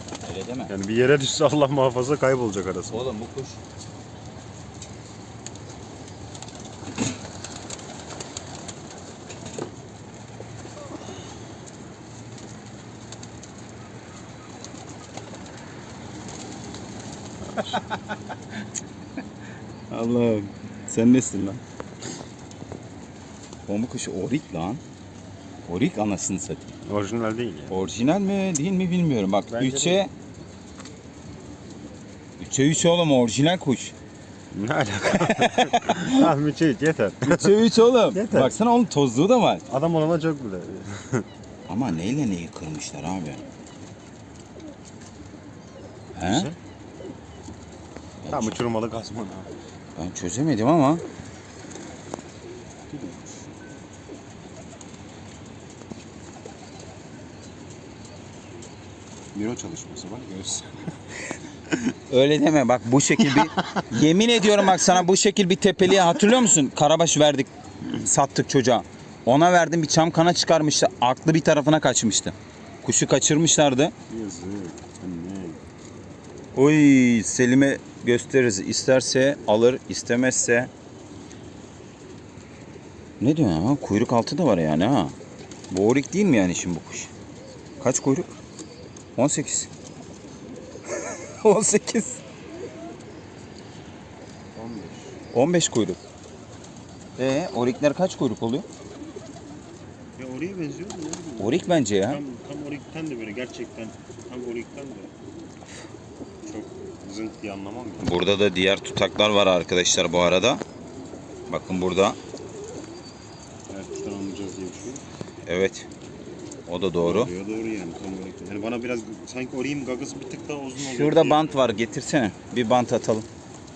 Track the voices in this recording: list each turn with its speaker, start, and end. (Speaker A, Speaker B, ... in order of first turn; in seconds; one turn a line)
Speaker A: 0.2-0.7
Speaker B: 0.7-3.1
Speaker A: 2.9-3.6
Speaker A: 17.6-18.3
Speaker A: 19.9-21.6
Speaker A: 23.7-24.8
Speaker A: 25.7-26.7
Speaker B: 26.9-27.8
Speaker A: 27.7-30.1
Speaker B: 29.5-30.1
Speaker A: 32.4-33.9
Speaker B: 34.5-37.6
Speaker A: 35.1-36.3
Speaker A: 37.2-39.6
Speaker B: 38.1-38.5
Speaker B: 39.7-41.2
Speaker A: 41.7-43.5
Speaker A: 46.2-46.5
Speaker B: 46.2-46.6
Speaker A: 48.2-48.6
Speaker B: 48.3-49.5
Speaker A: 50.0-51.0
Speaker B: 52.9-53.5
Speaker B: 59.3-60.9
Speaker A: 62.1-73.9
Speaker B: 63.2-63.9
Speaker B: 74.1-75.6
Speaker A: 76.5-80.7
Speaker A: 83.2-85.2
Speaker A: 85.7-87.1
Speaker A: 87.8-88.3
Speaker A: 89.2-89.7
Speaker A: 90.9-92.2
Speaker B: 94.5-95.2
Speaker A: 95.3-96.0
Speaker A: 97.2-98.7
Speaker B: 100.2-105.1
Speaker A: 101.4-102.2
Speaker B: 106.4-108.1
Speaker A: 108.0-110.6
Speaker A: 111.5-112.2
Speaker B: 113.7-115.0
Speaker A: 115.5-115.9
Speaker A: 116.7-117.3
Speaker B: 117.0-121.8
Speaker A: 120.8-123.3